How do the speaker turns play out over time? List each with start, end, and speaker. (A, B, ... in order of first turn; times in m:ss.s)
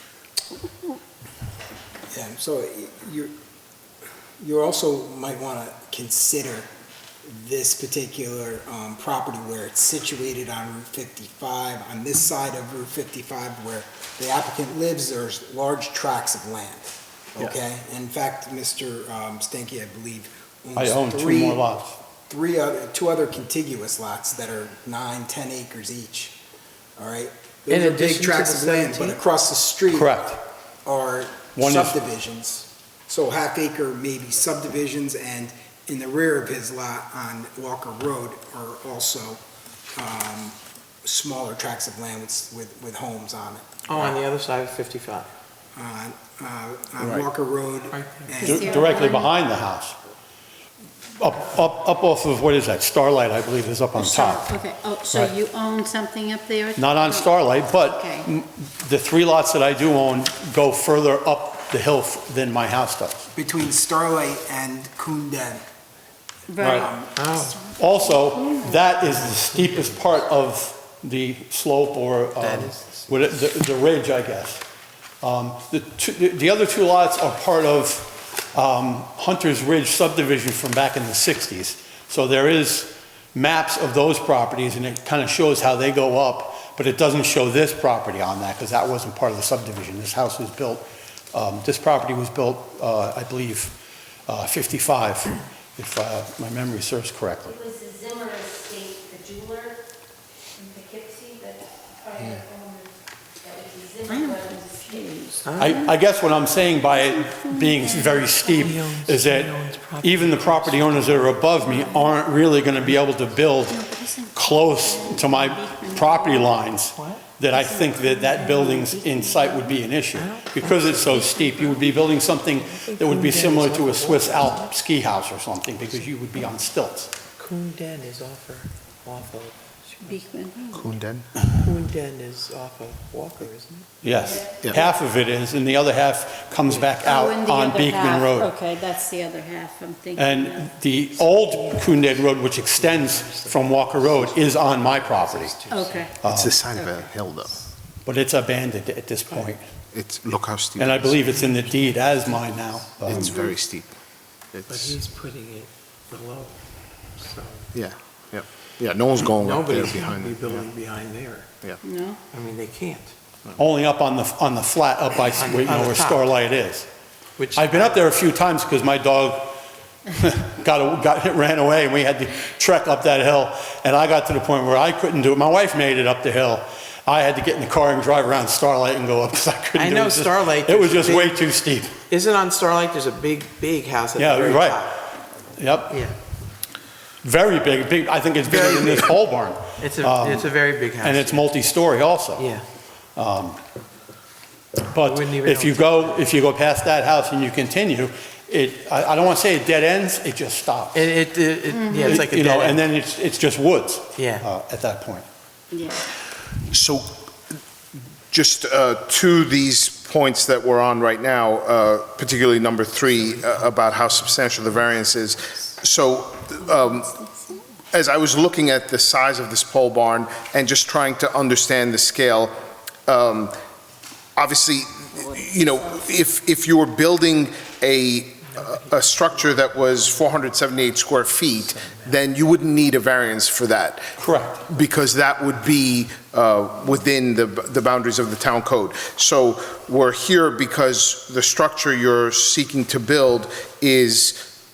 0:02.1-0:03.3 A
0:04.4-0:06.7 A
0:07.2-0:21.6 A
0:20.8-0:22.0 B
0:22.3-0:26.4 A
0:27.0-0:30.2 A
0:27.7-0:29.2 C
0:29.9-0:30.4 B
0:30.8-0:39.4 A
0:31.6-0:32.0 B
0:39.9-0:44.2 A
0:43.8-0:45.3 C
0:45.8-0:49.0 A
0:47.0-0:47.2 D
0:47.9-0:48.4 C
0:48.4-0:49.3 E
0:48.4-0:50.0 B
0:51.1-0:54.5 B
0:54.0-0:58.3 E
0:56.8-1:03.3 B
1:03.3-1:05.6 A
1:06.5-1:08.8 E
1:06.6-1:06.9 B
1:06.6-1:07.1 A
1:07.1-1:07.6 C
1:07.7-1:14.6 B
1:09.1-1:10.0 C
1:12.4-1:13.3 C
1:15.2-1:33.8 B
1:34.3-1:37.6 B
1:37.5-1:39.8 F
1:40.6-1:44.9 F
1:44.0-1:45.9 E
1:45.4-1:45.8 C
1:45.6-2:07.1 B
1:47.1-1:48.8 E
1:48.5-1:51.7 C
1:51.6-1:52.1 E
1:52.5-1:53.1 C
1:53.6-1:56.6 E
1:56.9-1:57.2 C
1:57.5-1:59.9 E
2:00.1-2:04.7 C
2:01.0-2:01.6 E
2:07.4-2:10.2 C
2:10.0-2:10.8 E
2:10.7-2:11.3 D
2:11.5-2:14.1 C
2:14.0-2:18.5 B
2:14.6-2:14.9 D
2:17.0-2:20.7 E
2:20.2-2:25.6 B
2:21.2-2:26.1 C
2:25.7-2:26.2 E
2:26.2-2:26.6 B
2:26.2-2:27.6 D
2:28.0-2:29.6 B
2:29.9-2:31.4 D
2:30.8-2:33.4 B
2:31.4-2:32.4 C
2:33.0-2:33.9 D
2:34.5-2:35.0 D
2:34.7-2:37.7 C
2:37.7-2:40.7 D
2:39.2-2:41.5 C
2:41.8-2:42.2 E
2:42.3-2:43.1 C
2:43.6-2:46.9 B
2:45.3-2:46.3 C
2:47.4-2:48.0 C
2:47.5-2:49.6 B
2:50.1-3:01.9 B
2:59.7-3:01.4 C
3:02.1-3:05.0 C
3:04.2-3:04.9 B
3:05.5-3:06.0 B
3:05.9-3:06.1 C
3:07.2-3:12.5 B
3:08.4-3:09.2 C
3:09.8-3:11.5 C
3:12.4-3:12.6 C
3:13.2-3:13.6 B
3:14.9-3:21.1 B
3:15.0-3:16.2 C
3:20.9-3:22.8 C
3:21.7-3:22.2 E
3:22.0-3:25.2 B
3:24.2-3:24.4 C
3:25.7-3:26.0 E
3:26.7-3:27.2 D
3:28.3-3:37.2 D
3:33.3-3:34.8 C
3:36.7-3:37.6 E
3:37.9-3:42.5 D
3:43.1-3:43.5 D
3:44.4-4:04.5 D
3:45.3-3:46.0 E
3:48.4-3:52.2 C
3:54.2-3:54.6 B